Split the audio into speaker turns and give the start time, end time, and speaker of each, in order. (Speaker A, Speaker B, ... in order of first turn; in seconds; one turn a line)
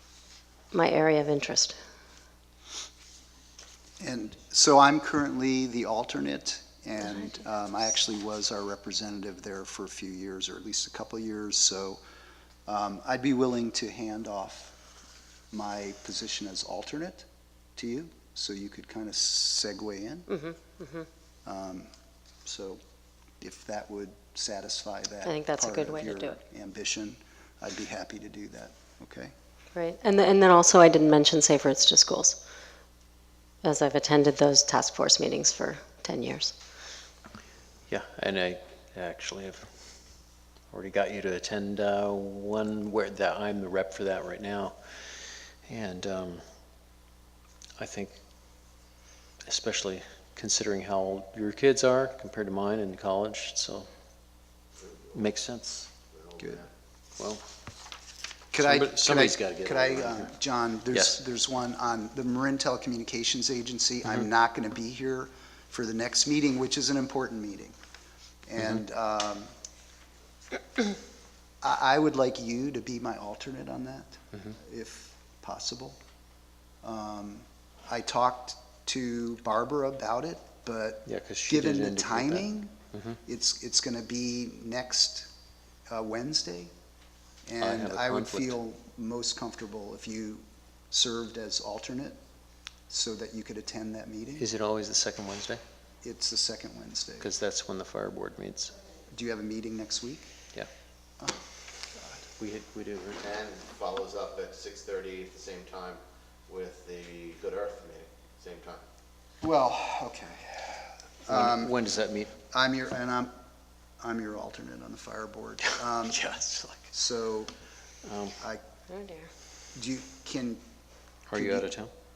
Speaker A: 0.7-1.8
Speaker B: 4.0-12.0
Speaker B: 12.7-14.7
Speaker B: 15.5-20.3
Speaker A: 20.3-21.1
Speaker B: 21.5-21.9
Speaker B: 22.4-22.8
Speaker B: 23.4-29.3
Speaker A: 25.2-26.4
Speaker A: 29.7-32.4
Speaker A: 33.6-36.5
Speaker C: 37.9-39.7
Speaker C: 40.7-46.4
Speaker C: 47.8-48.1
Speaker C: 49.5-53.9
Speaker D: 54.8-55.2
Speaker C: 55.1-55.9
Speaker D: 56.1-56.7
Speaker B: 58.5-67.8
Speaker C: 58.6-60.3
Speaker C: 60.9-61.2
Speaker B: 68.5-69.5
Speaker B: 71.6-76.0
Speaker B: 76.8-82.8
Speaker C: 81.1-83.2
Speaker B: 83.3-85.3
Speaker B: 85.9-86.7
Speaker B: 87.5-92.2
Speaker C: 87.6-88.6
Speaker B: 92.9-94.5
Speaker C: 94.4-95.6
Speaker B: 96.0-97.3
Speaker C: 97.2-98.8
Speaker B: 99.1-100.3
Speaker C: 102.4-103.2
Speaker D: 103.2-108.8
Speaker B: 109.4-111.8
Speaker C: 111.3-112.3
Speaker B: 112.5-113.3
Speaker B: 114.0-116.2
Speaker C: 116.0-116.9
Speaker B: 116.9-117.5
Speaker C: 118.1-118.3
Speaker A: 118.9-119.3
Speaker B: 119.8-120.6
Speaker C: 121.3-121.9
Speaker B: 121.3-121.7